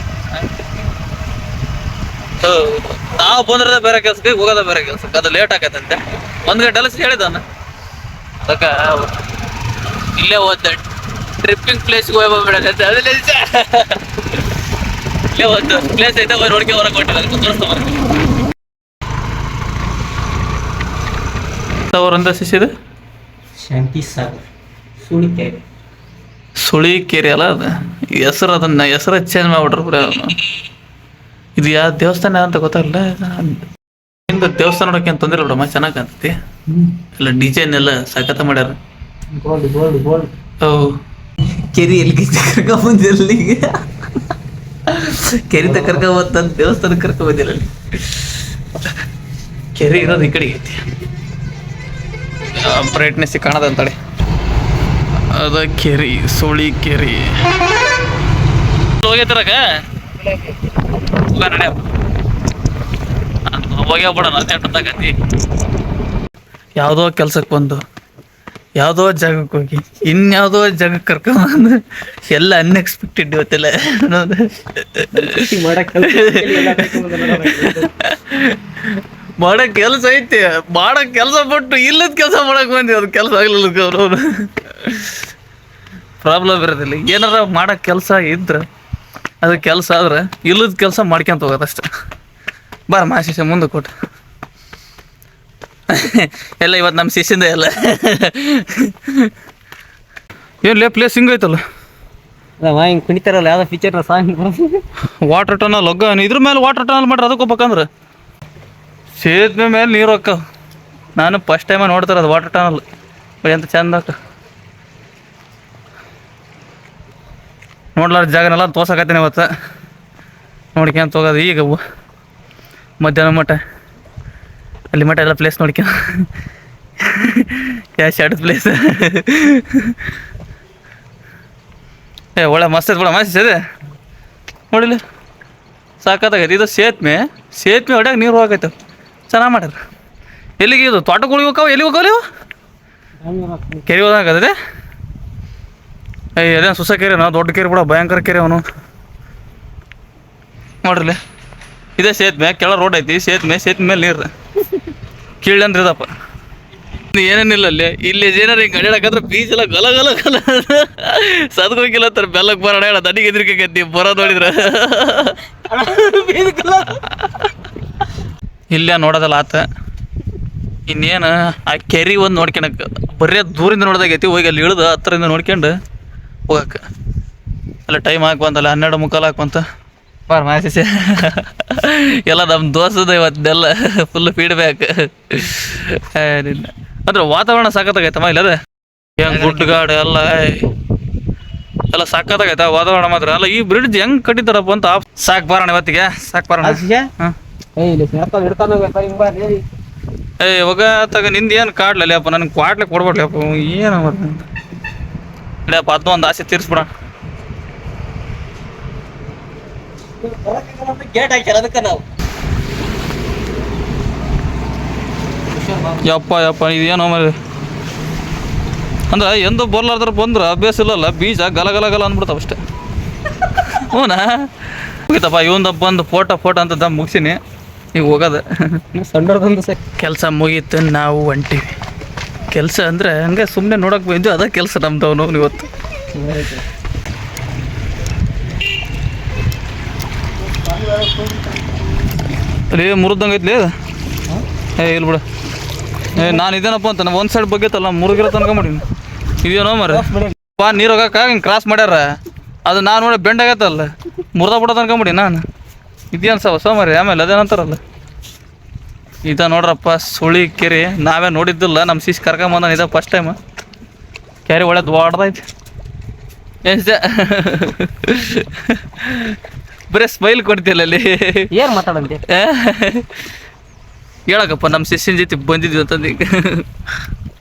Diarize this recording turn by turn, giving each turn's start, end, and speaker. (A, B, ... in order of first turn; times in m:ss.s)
0:00.3-0:00.6 A
0:02.4-0:07.4 A
0:08.4-0:09.2 A
0:10.2-0:10.8 A
0:11.4-0:14.0 A
0:15.3-0:18.0 A
0:21.9-0:22.7 A
0:23.6-0:24.4 B
0:25.0-0:25.6 B
0:26.6-0:30.4 A
0:31.6-0:33.6 A
0:34.3-0:36.4 A
0:37.1-0:38.8 A
0:39.3-0:40.3 B
0:40.6-0:41.0 A
0:41.7-0:43.7 A
0:44.9-0:48.9 A
0:45.6-0:46.1 B
0:49.7-0:50.8 A
0:52.5-0:54.0 A
0:55.3-0:57.4 A
0:59.0-0:59.6 A
1:01.1-1:01.8 A
1:03.5-1:05.2 A
1:06.8-1:07.8 A
1:08.8-1:15.4 A
1:15.1-1:17.9 B
1:16.0-1:25.2 A
1:26.2-1:28.6 A
1:29.4-1:31.9 A
1:32.9-1:33.9 A
1:35.9-1:39.3 A
1:40.6-1:41.6 A
1:42.6-1:44.8 B
1:45.2-1:47.9 A
1:49.2-1:50.4 A
1:51.2-1:52.8 A
1:53.4-1:54.2 A
1:58.0-1:59.5 A
2:00.7-2:01.8 A
2:03.0-2:03.6 A
2:04.9-2:06.3 A
2:07.0-2:10.0 A
2:12.4-2:13.6 A
2:14.7-2:15.0 A
2:16.0-2:18.7 A
2:19.3-2:19.8 A
2:20.6-2:22.2 A
2:23.2-2:23.8 B
2:23.8-2:24.5 A
2:26.4-2:28.6 A
2:30.8-2:31.2 A
2:32.0-2:34.3 A
2:35.4-2:36.1 A
2:37.1-2:45.4 A
2:45.7-2:46.9 B
2:46.7-2:47.4 A
2:48.7-2:49.6 A
2:50.9-2:55.8 A
2:56.5-2:56.8 A
2:57.9-2:59.6 A
3:00.3-3:08.6 A
3:09.2-3:10.7 A
3:09.3-3:09.8 B
3:11.9-3:17.3 A
3:16.6-3:17.1 B
3:17.8-3:19.6 B
3:20.4-3:24.4 A
3:25.6-3:26.9 A
3:30.2-3:32.0 B
3:35.5-3:36.0 B
3:36.0-3:37.3 A
3:39.1-3:42.6 A
3:43.5-3:47.4 A
3:47.9-3:48.8 A
3:48.9-3:49.8 B
3:50.0-3:51.7 A
3:52.5-3:55.7 A
3:56.1-3:56.6 B
4:00.5-4:01.7 B
4:02.7-4:03.7 A
4:04.8-4:05.2 A
4:06.1-4:08.8 A
4:09.4-4:12.0 A
4:09.9-4:10.3 B
4:12.6-4:15.4 A
4:16.1-4:17.8 A
4:19.2-4:23.4 A
4:24.4-4:25.4 A
4:26.6-4:29.4 A
4:29.9-4:31.5 A
4:31.5-4:32.2 B
4:32.3-4:33.1 A
4:34.3-4:36.6 A